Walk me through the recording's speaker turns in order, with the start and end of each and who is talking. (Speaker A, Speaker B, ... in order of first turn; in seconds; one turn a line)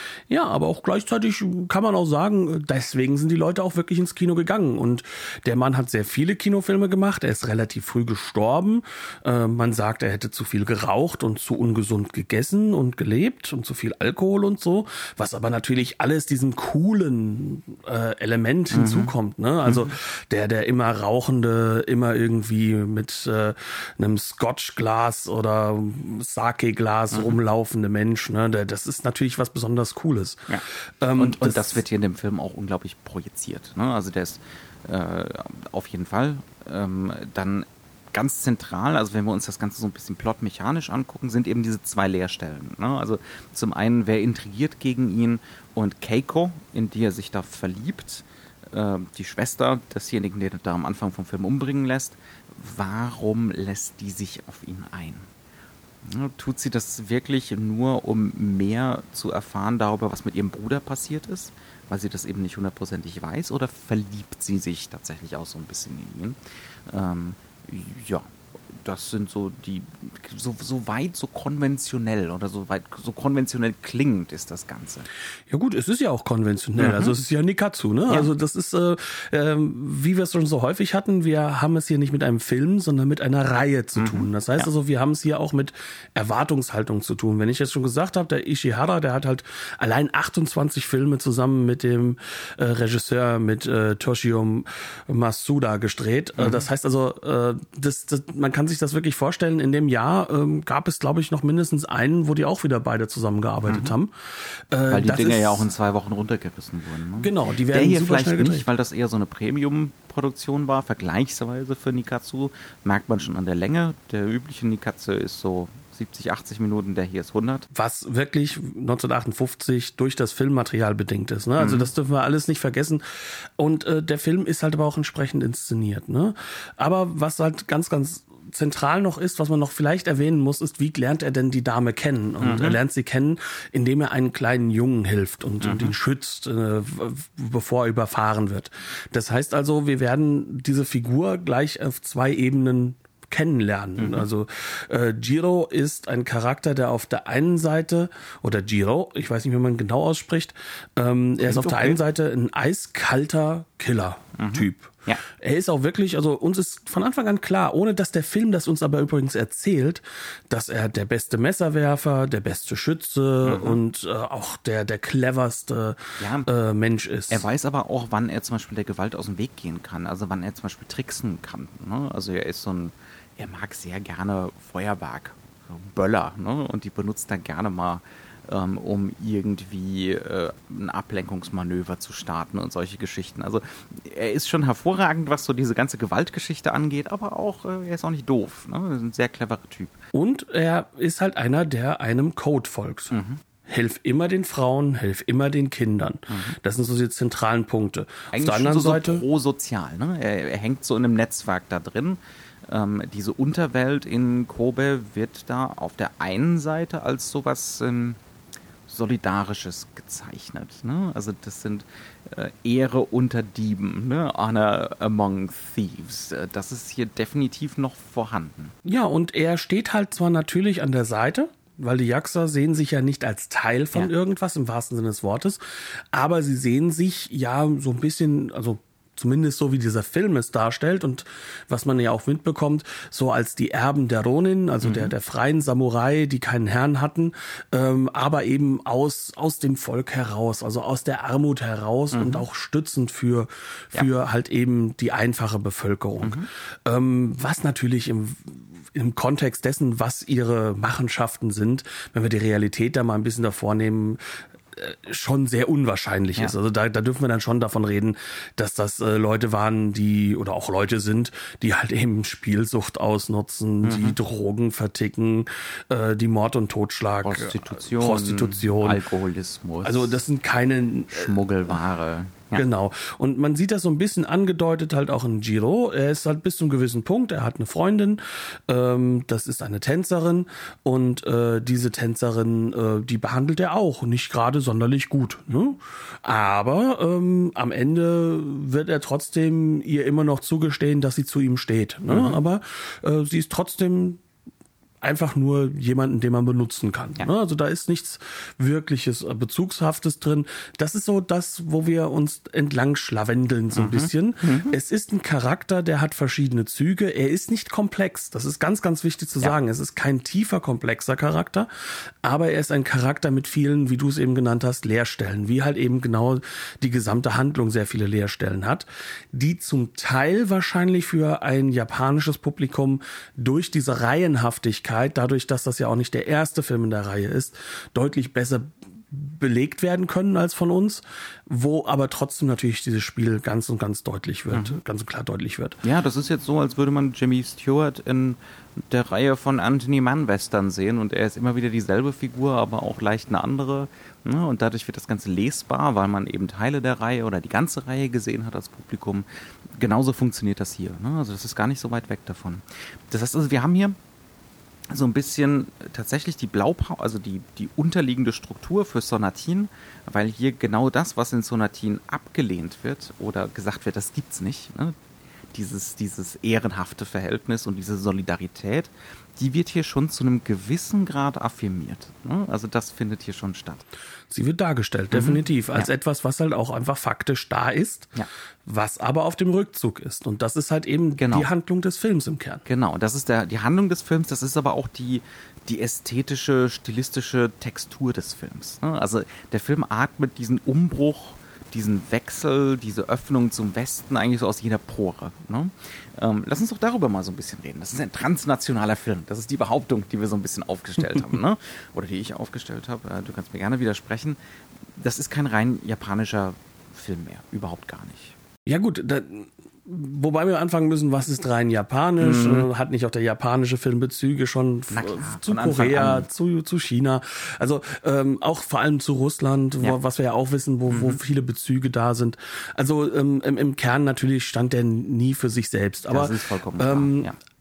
Speaker A: 0.3-31.8
Speaker B: 18.7-19.1
Speaker B: 31.2-55.3
Speaker B: 56.0-66.4
Speaker B: 66.9-68.3
Speaker B: 68.8-75.1
Speaker A: 75.5-105.7
Speaker B: 76.8-77.2
Speaker B: 84.0-84.7
Speaker B: 96.4-96.7
Speaker B: 103.7-104.0
Speaker B: 104.9-117.7
Speaker A: 107.2-108.7
Speaker A: 117.7-167.5
Speaker B: 121.6-121.9
Speaker B: 132.4-132.8
Speaker B: 135.6-135.9
Speaker B: 144.0-144.2
Speaker B: 151.4-152.0
Speaker B: 154.4-155.2
Speaker B: 163.4-163.8
Speaker B: 166.2-166.5
Speaker B: 167.3-190.0
Speaker A: 190.1-199.2
Speaker B: 193.1-193.4
Speaker B: 196.3-196.6
Speaker B: 198.3-208.2
Speaker B: 208.9-218.8
Speaker A: 218.8-269.0
Speaker B: 234.8-235.1
Speaker B: 242.1-242.4
Speaker B: 246.2-246.5
Speaker B: 263.8-264.2
Speaker B: 267.2-270.2
Speaker A: 269.8-271.8
Speaker B: 271.1-272.6
Speaker A: 272.5-294.2
Speaker B: 292.1-292.4
Speaker A: 295.0-335.8
Speaker B: 303.7-304.8
Speaker B: 334.5-334.8
Speaker B: 335.8-349.3
Speaker B: 349.8-354.0
Speaker B: 354.9-365.0
Speaker B: 365.5-373.8
Speaker A: 374.3-378.1
Speaker B: 375.1-375.9
Speaker A: 378.7-382.6
Speaker B: 381.2-381.5
Speaker B: 382.7-404.4
Speaker B: 405.0-408.4
Speaker A: 408.7-427.3
Speaker B: 412.2-412.7
Speaker B: 414.9-416.3
Speaker B: 420.9-421.2
Speaker B: 426.1-427.4